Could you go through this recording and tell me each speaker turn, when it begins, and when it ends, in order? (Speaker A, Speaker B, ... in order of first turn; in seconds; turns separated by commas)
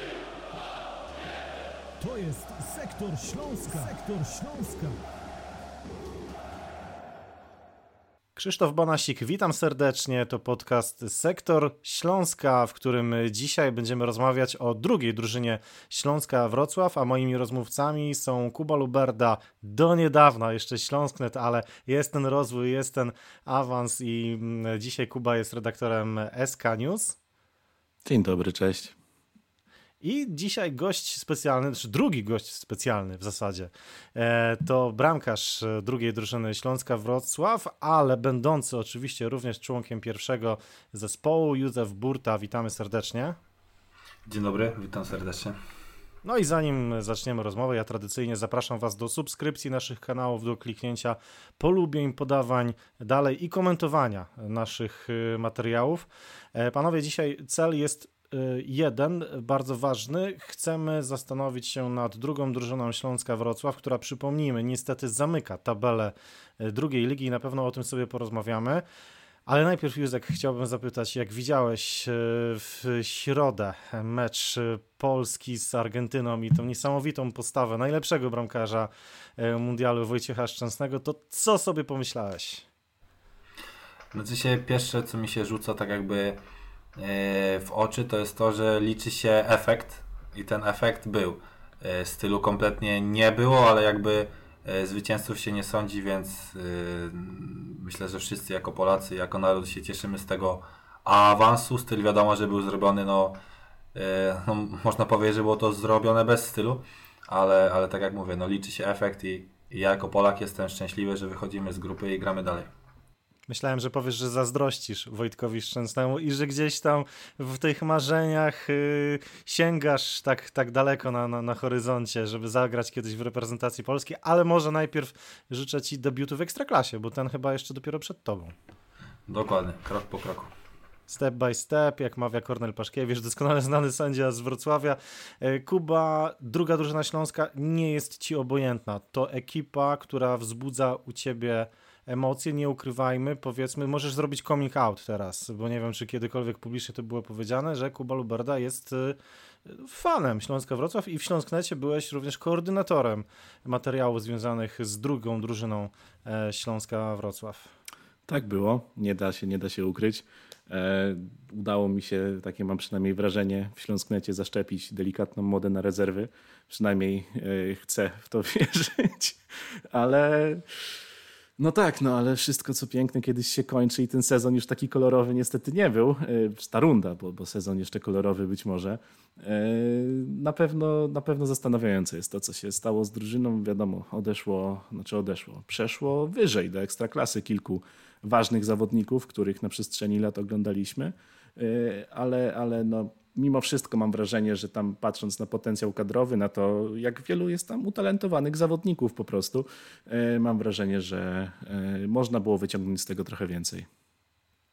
Speaker A: 2.0-5.0, Speaker B: 8.4-27.2, Speaker C: 28.1-28.9, Speaker B: 30.0-43.4, Speaker D: 44.3-45.6, Speaker B: 46.2-68.8, Speaker B: 69.5-82.7, Speaker D: 84.1-86.4, Speaker D: 87.0-103.4, Speaker D: 104.0-112.7, Speaker B: 113.5-128.6, Speaker D: 129.3-130.5, Speaker B: 131.1-157.7, Speaker C: 158.3-169.4, Speaker C: 169.9-170.7, Speaker C: 171.6-203.9